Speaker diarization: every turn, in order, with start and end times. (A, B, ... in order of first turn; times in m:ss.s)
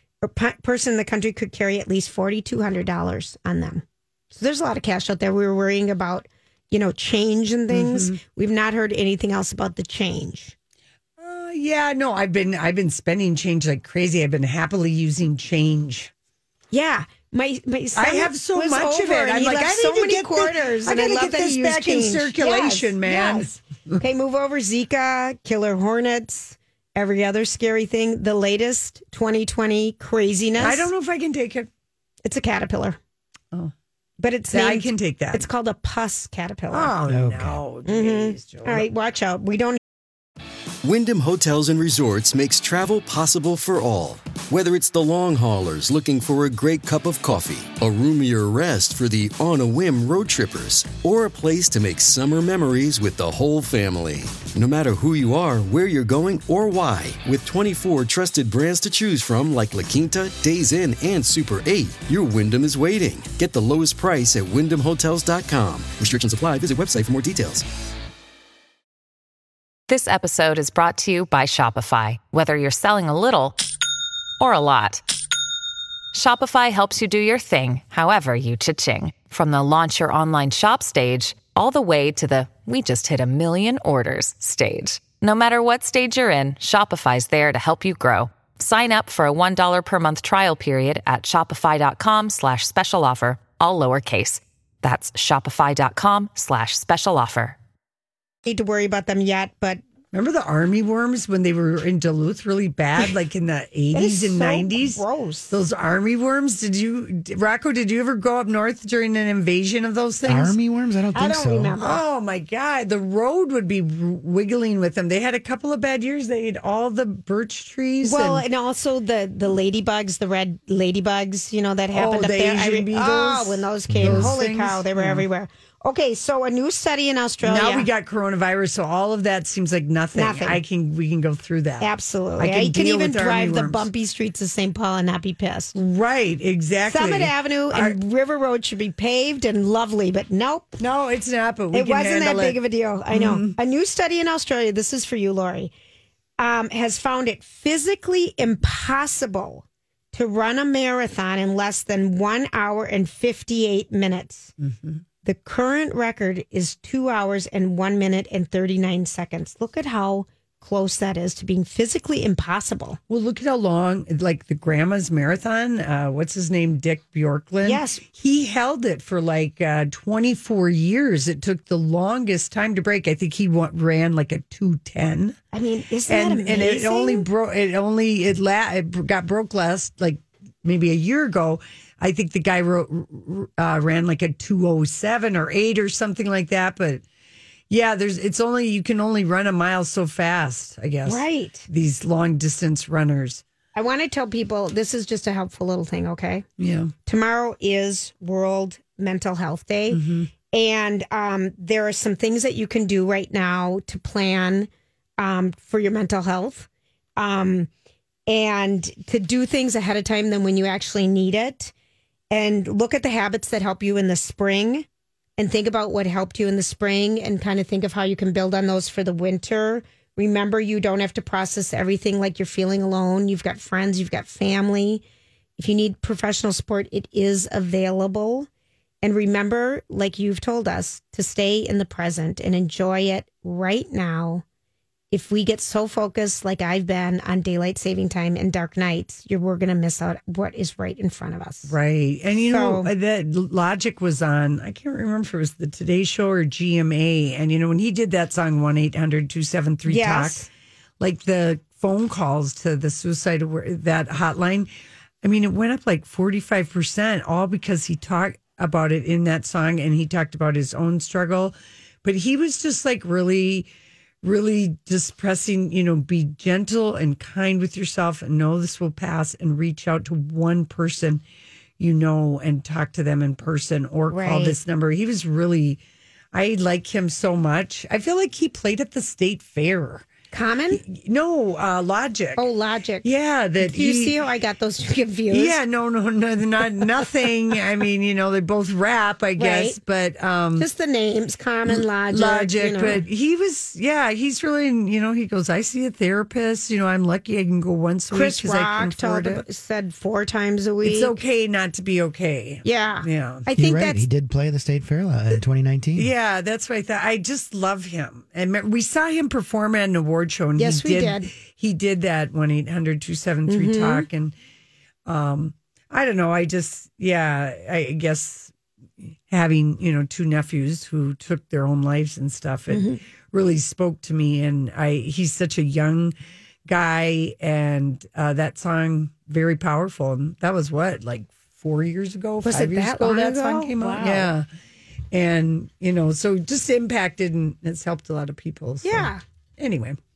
0:00.2-0:10.5 A
0:07.7-0:08.2 B
0:11.2-0:16.1 B
0:16.7-0:23.5 A
0:17.9-0:24.0 B
0:24.0-0:30.9 A
0:30.6-0:31.7 B
0:32.2-0:33.0 A
0:34.2-0:36.9 A
0:34.5-0:35.5 B
0:36.7-0:38.9 B
0:37.1-0:37.6 C
0:37.9-0:39.8 A
0:40.8-1:07.7 D
1:09.9-1:13.6 E
1:14.4-1:15.0 E
1:16.1-1:37.6 E
1:38.4-1:39.8 A
1:40.1-1:50.6 B
1:43.9-1:45.5 A
1:50.2-1:51.7 C
1:51.1-1:52.0 A
1:51.8-1:58.4 B
1:58.0-2:07.9 A
2:01.9-2:05.2 B
2:03.9-2:04.3 C
2:07.4-2:13.9 B
2:10.1-2:10.6 A
2:11.8-2:15.7 A
2:15.7-2:18.0 B
2:16.9-2:20.7 A
2:20.8-2:23.6 B
2:21.7-2:25.7 A
2:26.4-2:34.5 A
2:34.6-2:35.0 B
2:35.2-2:43.0 A
2:43.1-2:55.4 B
2:47.6-2:48.0 A
2:55.5-2:57.2 A
2:56.1-3:07.0 B
3:07.7-3:13.4 B
3:11.0-3:11.6 A
3:13.7-3:16.4 A
3:16.6-3:16.9 B
3:17.0-3:27.7 A
3:19.9-3:20.3 B
3:28.3-3:31.7 A
3:32.3-3:34.8 A
3:35.4-3:45.0 A
3:45.6-3:48.5 A
3:49.0-3:54.4 A
3:55.1-4:01.7 A
4:01.7-4:10.5 B
4:02.5-4:02.9 A
4:09.8-4:10.5 A
4:11.0-4:14.7 B
4:15.2-4:23.7 B
4:24.2-4:31.2 B
4:31.8-4:35.8 B
4:34.1-4:34.6 A
4:36.3-4:40.1 B
4:40.3-4:40.8 A
4:40.7-4:42.4 B
4:42.4-4:43.1 A
4:43.0-4:44.2 B
4:43.6-4:45.6 A
4:45.3-4:50.6 B
4:49.4-4:49.8 A
4:50.6-4:53.0 A
4:51.7-4:59.4 B
4:58.1-5:01.1 A
5:00.8-5:03.5 B
5:02.6-5:04.0 A
5:03.5-5:06.1 C
5:06.0-5:14.3 B
5:10.6-5:11.3 A
5:13.5-5:14.1 A
5:15.0-5:18.5 B
5:19.3-5:26.1 B
5:22.7-5:23.0 A
5:26.6-5:34.4 B
5:32.4-5:34.3 A
5:35.1-5:40.0 B
5:38.8-5:39.2 A